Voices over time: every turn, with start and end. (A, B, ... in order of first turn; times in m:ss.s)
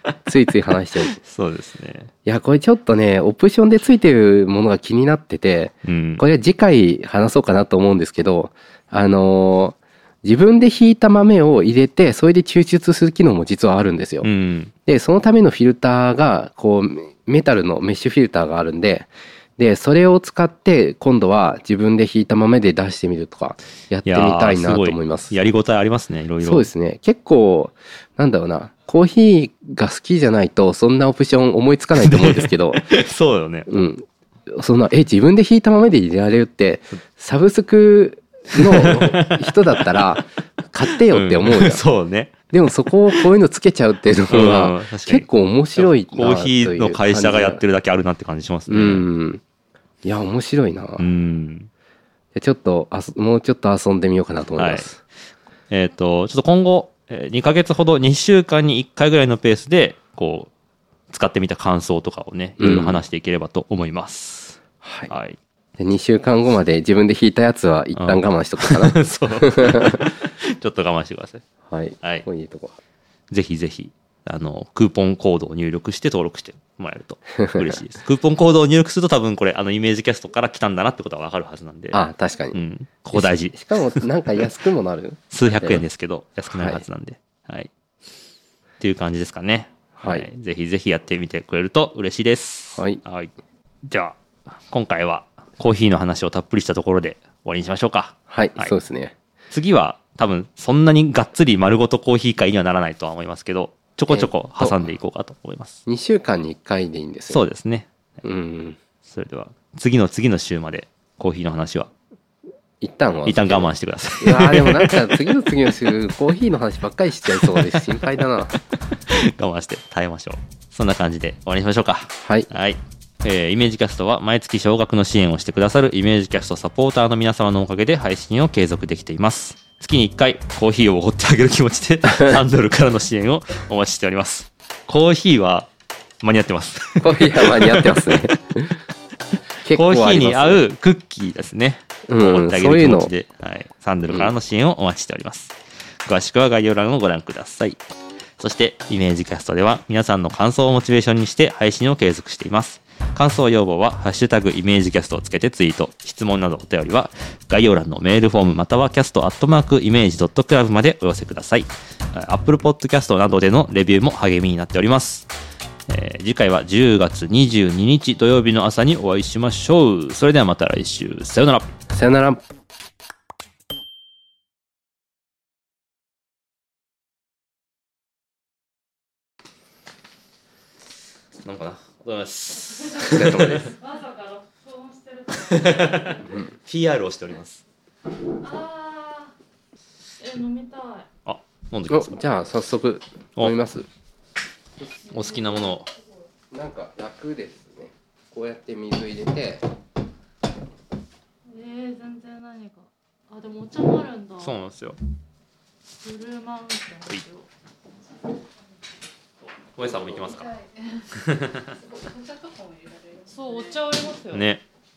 0:00.2-0:01.2 A
0:01.0-0:02.1 B
0:02.2-0:14.3 A
0:05.8-0:06.2 B
0:14.2-0:14.7 B
0:14.9-0:25.3 A
0:24.0-0:26.7 B
0:26.4-0:32.8 A
0:32.0-0:33.7 B
0:33.7-0:41.8 A
0:38.5-0:39.9 B
0:40.9-0:42.3 B
0:42.5-0:47.6 A
0:44.3-0:49.1 B
0:48.7-0:49.4 A
0:50.0-0:51.1 A
0:51.0-0:51.7 B
0:52.3-0:55.0 A
0:54.6-0:54.9 B
0:55.7-1:00.5 B
1:01.1-1:05.4 B
1:02.6-1:03.0 A
1:04.8-1:05.1 A
1:05.8-1:10.1 A
1:07.9-1:11.4 B
1:11.7-1:12.7 A
1:13.3-1:24.0 B
1:17.4-1:17.7 A
1:21.9-1:22.6 A
1:23.1-1:25.8 A
1:25.3-1:27.7 B
1:26.5-1:26.8 A
1:28.8-1:33.3 B
1:30.0-1:30.3 A
1:32.7-1:33.0 A
1:33.9-1:38.7 B
1:38.3-1:39.1 A
1:39.5-1:45.8 B
1:44.1-1:44.8 A
1:45.9-1:47.4 A
1:47.3-1:47.9 B
1:48.2-1:48.8 A
1:49.0-1:51.9 B
1:52.8-1:58.6 A
1:53.2-1:55.0 B
1:57.4-1:57.8 B
1:59.1-2:15.7 B
2:02.2-2:02.5 A
2:16.2-2:18.2 B
2:17.0-2:18.8 A
2:19.6-2:20.6 A
2:19.7-2:27.8 B
2:22.1-2:23.1 A
2:28.4-2:45.3 B
2:45.9-2:51.7 B
2:51.9-2:52.4 A
3:01.4-3:03.7 B
3:03.0-3:03.7 A
3:03.5-3:06.3 C
3:05.3-3:07.6 B
3:08.3-3:09.3 C
3:10.2-3:11.1 C
3:11.2-3:12.3 B
3:11.9-3:13.8 A
3:15.1-3:15.9 B
3:15.5-3:15.7 C
3:16.5-3:19.6 A
3:21.5-3:24.6 C
3:24.4-3:25.0 B
3:25.9-3:27.5 C
3:29.7-3:30.5 B
3:30.3-3:31.0 C
3:31.1-3:31.8 B
3:31.8-3:34.4 C
3:34.3-3:34.6 B